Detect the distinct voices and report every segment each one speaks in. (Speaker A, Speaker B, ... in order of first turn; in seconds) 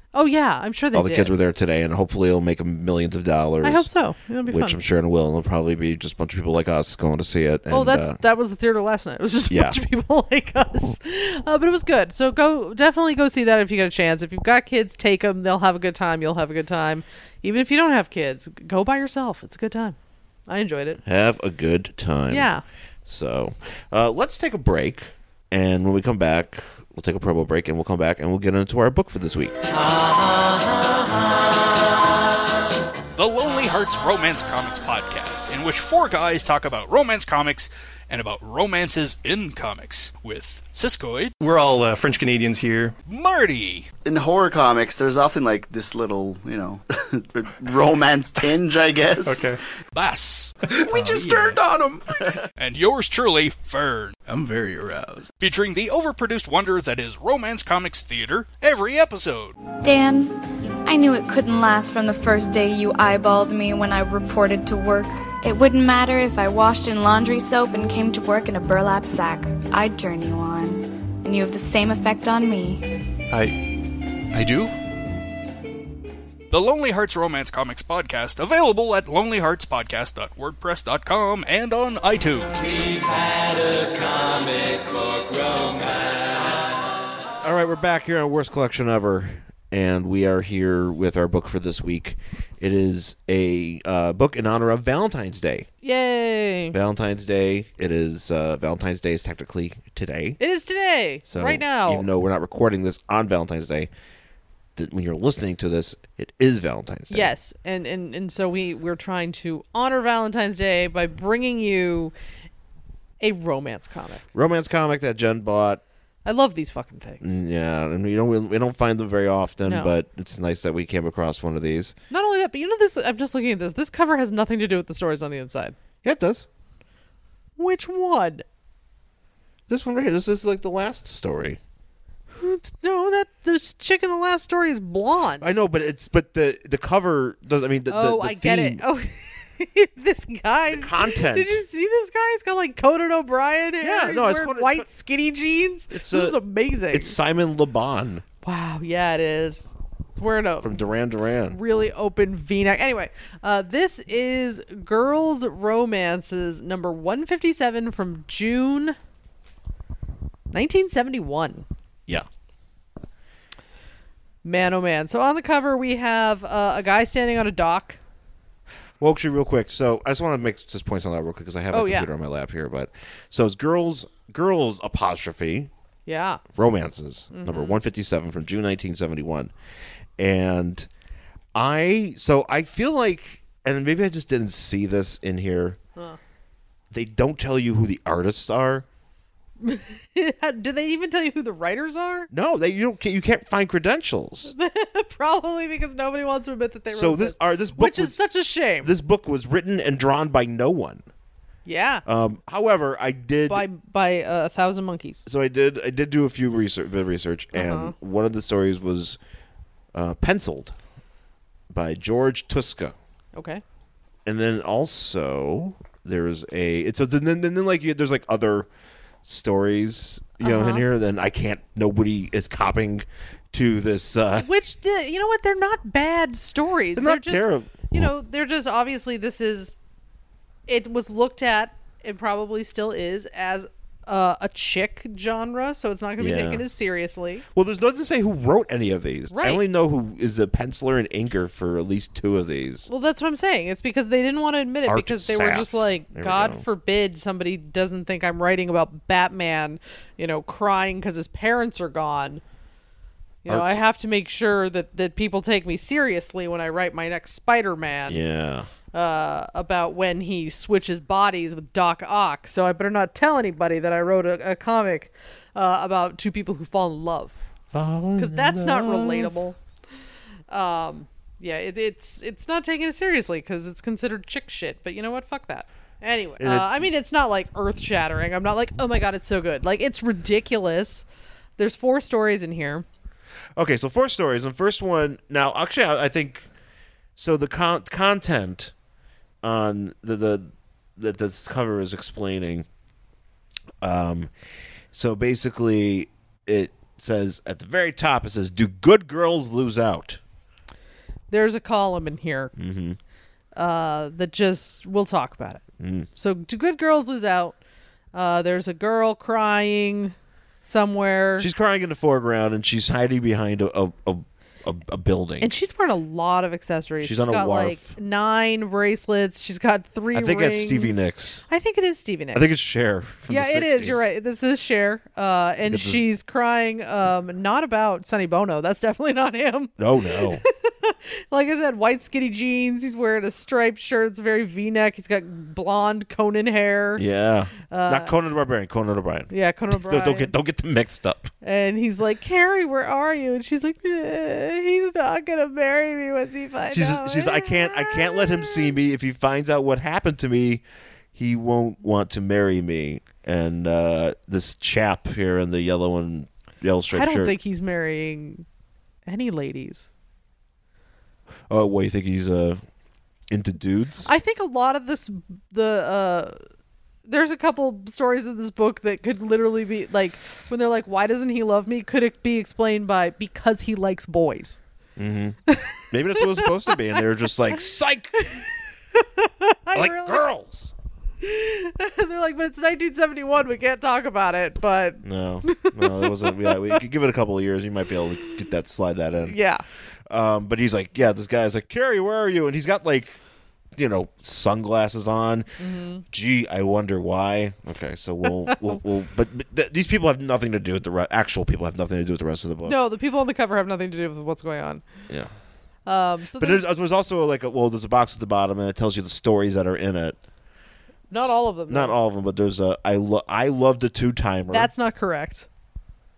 Speaker A: 0.1-1.3, 3.6-4.8, 7.7-20.0, 20.5-21.0, 22.3-22.6, 95.8-96.8, 100.4-102.1, 107.1-112.1, 113.2-114.2, 116.2-117.3, 119.7-119.9, 122.1-125.8, 127.6-128.4, 132.3-135.5, 137.9-147.2, 148.4-150.8, 151.5-159.0, 160.5-161.7, 164.4-168.0, 171.7-172.1, 176.1-176.4, 177.3-177.8, 189.6-192.3, 194.5-198.9, 201.7-202.0, 203.5-205.2, 207.5-207.9, 213.3-213.6, 220.4-220.9, 224.4-229.8, 230.7-237.4, 239.3-239.6, 242.9-252.4, 253.4-258.2, 258.9-267.4, 268.2-269.6, 270.5-281.1, 281.6-282.9, 301.3-302.5, 303.6-305.6, 306.2-307.6, 308.1-311.5, 315.4-322.5, 323.3-337.0, 337.7-338.1, 339.3-340.3, 341.4-348.7, 356.9-358.4, 359.1-359.9, 364.1-366.4, 367.1-374.6, 375.5-377.0, 378.2-380.2, 381.2-386.8, 389.3-389.6, 395.6-396.0, 398.3-398.8, 402.6-404.8, 405.9-406.6, 411.1-411.9, 414.5-415.5
Speaker B: 0.9-3.9, 4.5-8.2, 9.5-9.8, 21.1-22.5, 23.1-29.6, 87.4-95.7, 96.7-100.4, 101.3-103.9, 104.8-107.3, 114.3-115.8, 117.2-121.9, 126.0-126.5, 129.7-131.6, 135.4-138.8, 140.7-141.6, 143.8-144.9, 145.9-146.4, 146.9-148.2, 150.6-151.6, 169.0-175.7, 176.5-179.5, 180.2-180.9, 181.6-185.8, 186.9-188.8, 192.3-194.5, 196.9-198.2, 198.8-201.0, 202.1-203.7, 205.3-209.2, 209.9-210.7, 211.7-213.0, 214.3-218.7, 219.2-224.5, 226.9-228.1, 236.2-236.7, 237.5-242.9, 244.9-246.6, 253.5-253.8, 258.1-258.7, 267.7-269.3, 276.4-276.9, 283.6-286.4, 287.2-288.7, 289.4-292.7, 293.8-294.3, 294.9-300.2, 302.6-303.0, 305.8-306.1, 311.4-315.5, 317.0-317.9, 320.1-321.4, 322.3-324.1, 325.7-326.0, 329.8-330.4, 337.0-341.3, 346.7-350.6, 351.1-357.3, 361.5-362.6, 363.3-364.1, 375.0-375.4, 375.9-378.5, 379.7-380.7, 385.0-389.4, 390.1-393.2, 393.8-395.5, 396.1-402.8, 406.4-410.2, 411.1-414.7
Speaker C: 33.1-41.4, 43.1-43.9, 50.0-50.5, 52.6-54.2, 55.4-59.5, 76.5-83.0, 85.4-85.7
Speaker D: 41.4-43.0, 49.2-49.6, 50.7-52.1, 54.3-55.3, 73.3-74.7
Speaker E: 44.0-49.6, 50.9-51.6
Speaker F: 59.8-72.8